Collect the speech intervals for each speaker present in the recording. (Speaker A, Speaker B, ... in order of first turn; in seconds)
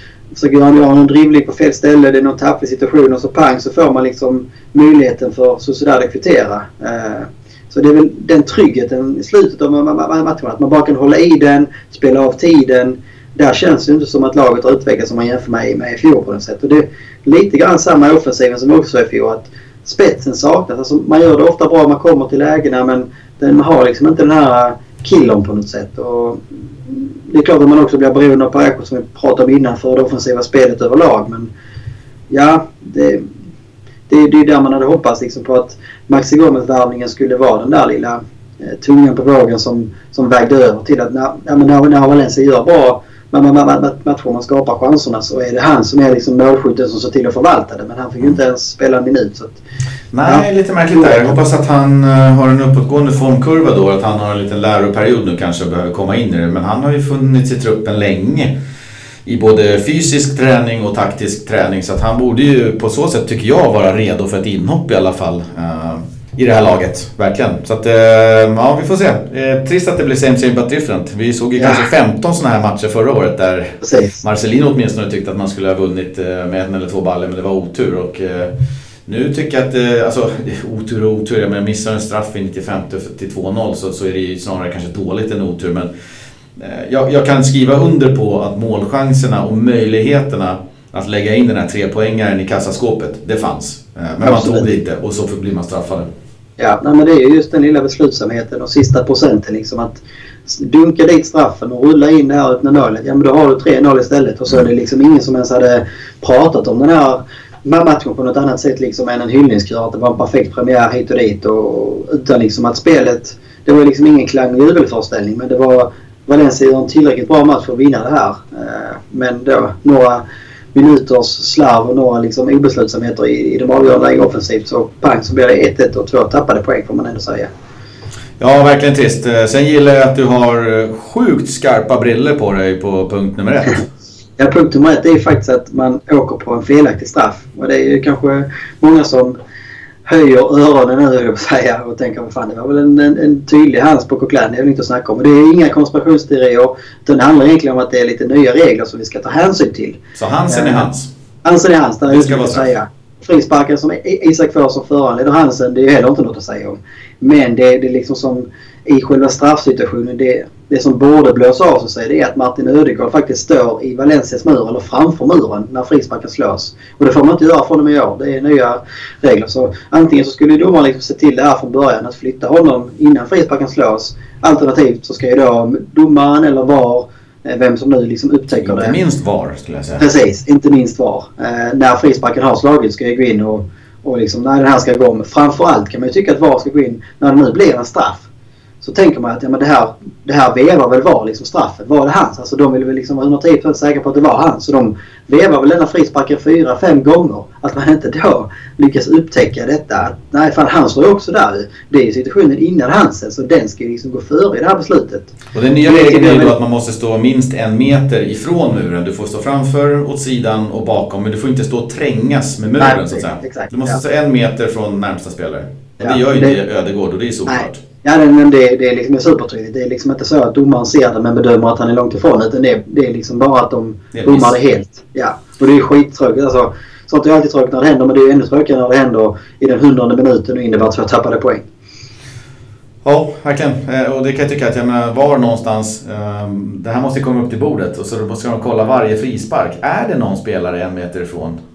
Speaker A: 0.3-31.5, 32.3-33.2, 34.1-49.6, 50.2-51.4, 71.6-71.8, 73.8-74.2, 94.2-94.7, 96.6-120.2, 120.7-127.5, 134.4-139.4, 140.1-150.9, 151.4-178.9, 180.0-188.3, 188.8-205.3, 205.8-206.5, 212.8-214.0, 216.0-216.6, 217.5-231.7
Speaker B: 50.1-58.5, 59.2-78.5, 79.0-85.9, 86.5-96.1, 128.4-133.8, 150.2-151.1, 152.1-152.7, 178.6-180.0, 205.5-217.8, 224.1-224.5, 233.0-241.6